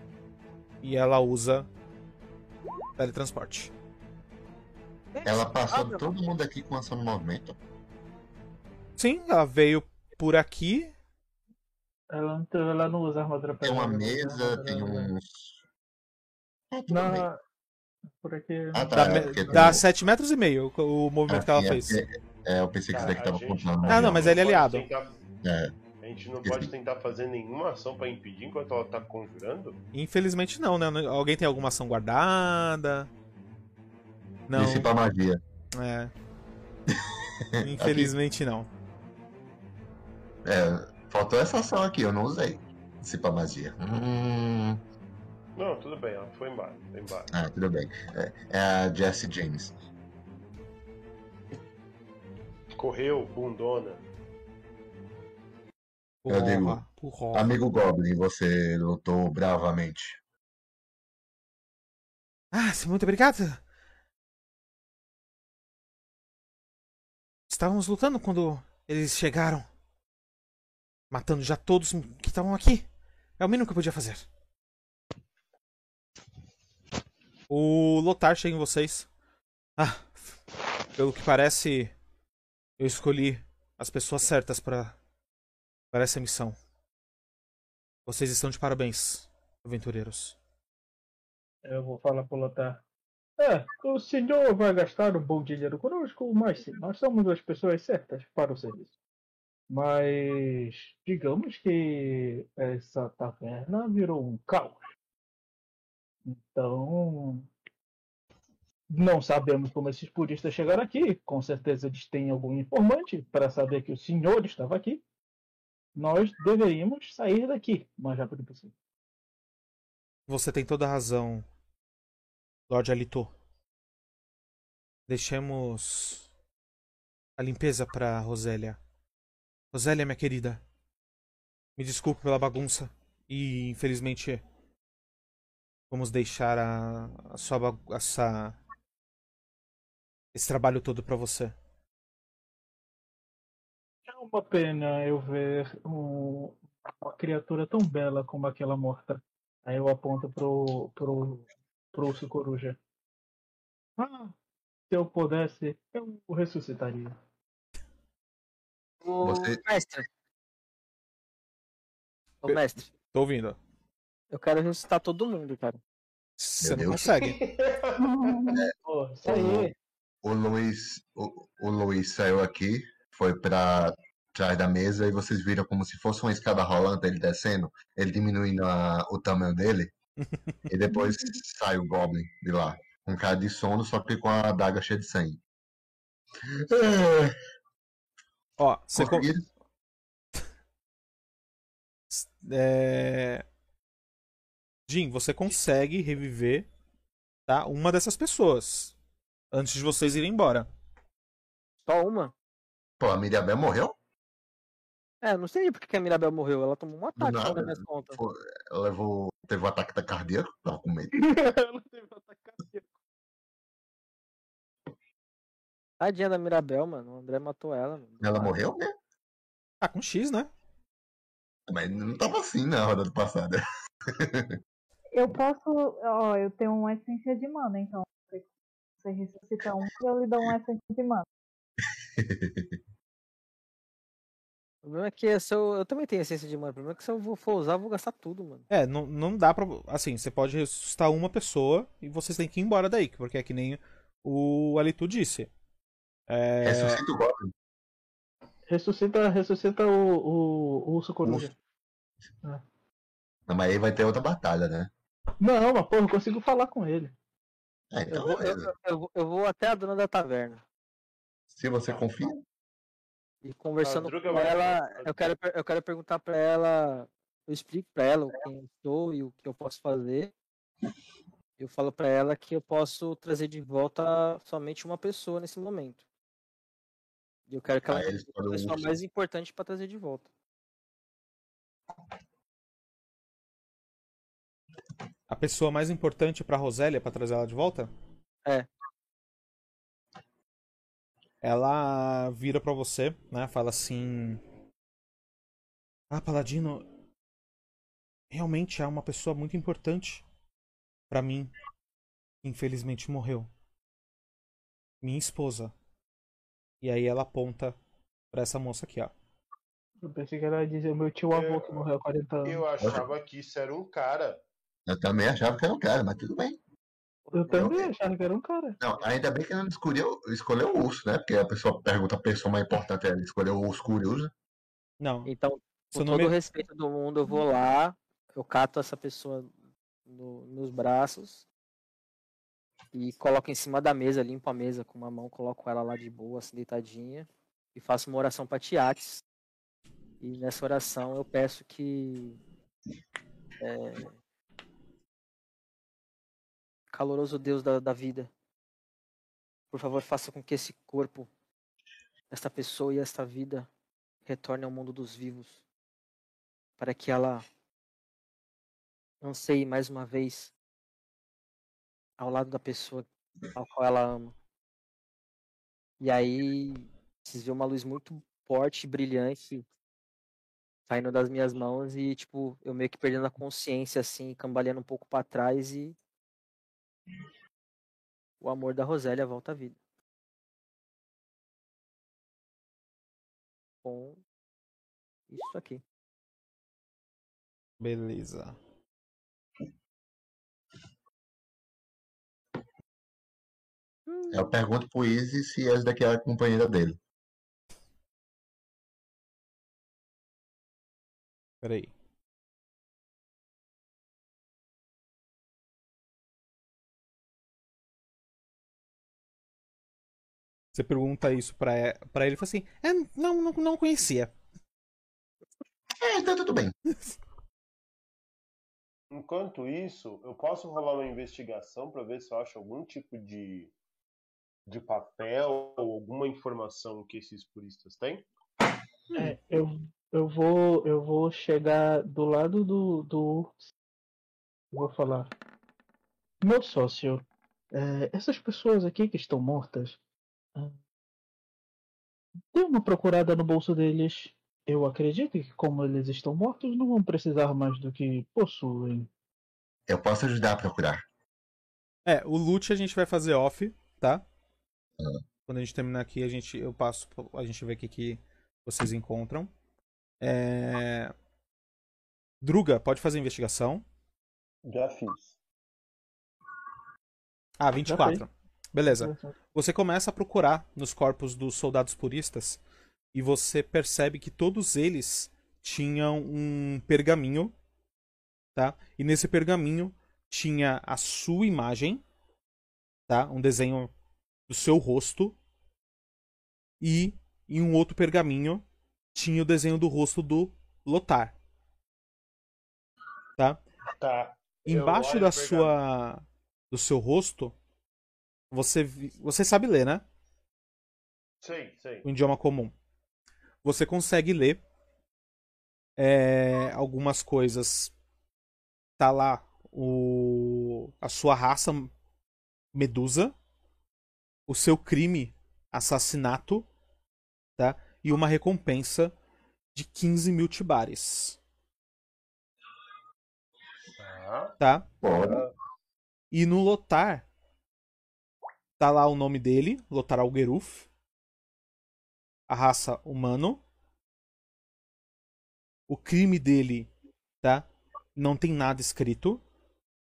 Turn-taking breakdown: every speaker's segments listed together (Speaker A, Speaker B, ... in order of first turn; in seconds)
Speaker A: 0.8-1.7, 3.0-3.7, 9.0-10.9, 19.0-22.0, 23.9-24.9, 29.9-33.1, 34.5-34.9, 35.8-36.1, 37.6-38.7, 56.2-57.5, 62.5-63.6, 67.5-69.7, 71.1-72.9, 73.4-74.2, 77.5-79.1, 79.8-80.3, 81.0-81.9, 82.8-85.0, 85.9-86.6, 88.1-90.4, 120.3-121.5, 122.7-123.3, 125.1-126.3, 127.4-128.8, 129.7-130.6, 131.8-134.4, 135.9-138.6, 140.3-141.6, 163.1-163.6, 166.4-167.4, 188.6-189.3, 192.1-193.4, 194.9-196.7, 197.5-198.9, 199.5-200.7, 219.8-220.5, 238.7-245.5, 246.3-247.0, 285.3-287.9, 291.4-294.4, 296.1-296.9, 298.3-300.2, 301.1-301.5, 302.4-303.5, 305.0-305.7, 306.8-307.8, 308.3-309.1, 325.0-325.3, 325.9-326.3, 387.8-388.6, 401.6-401.9, 410.7-414.3, 452.1-454.2, 455.5-459.5, 460.2-461.1, 462.4-463.9, 467.6-472.6, 473.1-477.5, 478.6-482.0, 483.1-483.9, 484.5-485.4, 486.8-488.6, 489.1-491.4, 494.6-497.6, 498.5-500.0, 502.1-502.7, 503.6-504.6, 506.0-507.9, 509.0-511.9, 512.7-513.3, 514.5-516.7, 517.6-519.1, 519.7-521.4, 524.6-524.9, 526.3-527.3, 528.8-530.9, 532.5-533.6, 535.9-536.9, 537.4-539.4
Speaker B: 5.1-6.1, 159.0-160.1, 162.4-162.9, 164.3-165.8, 201.8-202.3, 205.2-208.2, 216.0-218.6, 234.8-238.7, 258.1-260.6, 263.4-270.3, 271.6-276.0, 277.5-280.3, 317.3-317.6, 325.3-329.5, 330.1-331.4, 332.9-339.2, 340.2-342.4, 343.6-344.2, 346.9-348.3, 349.7-351.3, 352.3-353.7, 354.3-355.6, 356.8-357.4, 359.2-360.5, 362.2-364.3, 366.0-369.6, 370.9-376.0, 378.4-379.8, 383.8-384.2, 385.3-385.8, 394.1-394.5
Speaker C: 5.2-7.6, 13.6-15.6, 16.7-17.3, 18.7-19.8, 21.3-24.4, 25.4-25.7, 26.4-26.7, 34.5-35.4, 37.6-38.1, 40.5-44.8, 47.3-49.7, 56.3-56.8, 57.3-60.2, 159.2-159.6, 166.6-167.2, 169.2-169.7, 170.2-179.9, 180.7-185.4, 186.5-187.3, 188.9-189.5, 203.0-204.0, 207.2-211.1, 218.2-218.9, 221.7-224.5, 232.2-232.8, 246.6-247.5, 251.2-251.5, 253.5-254.9, 257.9-258.7, 261.5-262.4, 277.9-278.9, 312.8-313.1, 314.9-316.6, 317.5-317.9, 318.8-324.3, 394.3-397.0, 416.0-416.8, 449.9-451.0, 525.0-525.5
Speaker D: 12.1-15.1, 16.9-17.4, 18.2-19.8, 91.7-92.8, 93.4-98.9, 99.7-104.8, 106.3-107.5, 108.9-115.0, 116.0-118.7, 144.1-152.8, 154.0-154.3, 154.9-157.2, 168.8-169.7, 211.2-212.9, 248.7-251.5, 255.4-257.1, 310.0-312.6, 317.3-318.8, 429.1-433.6, 434.7-435.3, 436.4-440.0, 442.5-449.1, 467.9-468.2, 468.9-469.4
Speaker E: 22.9-25.2, 26.0-29.8, 45.6-47.3, 52.8-54.0, 167.2-168.0, 263.8-265.2, 311.3-311.9, 312.4-314.4, 419.1-423.7, 424.7-428.3, 464.7-465.4, 494.0-495.8, 501.4-502.1, 524.0-524.5, 525.2-525.5
Speaker F: 168.0-168.7, 225.1-228.5, 229.0-231.3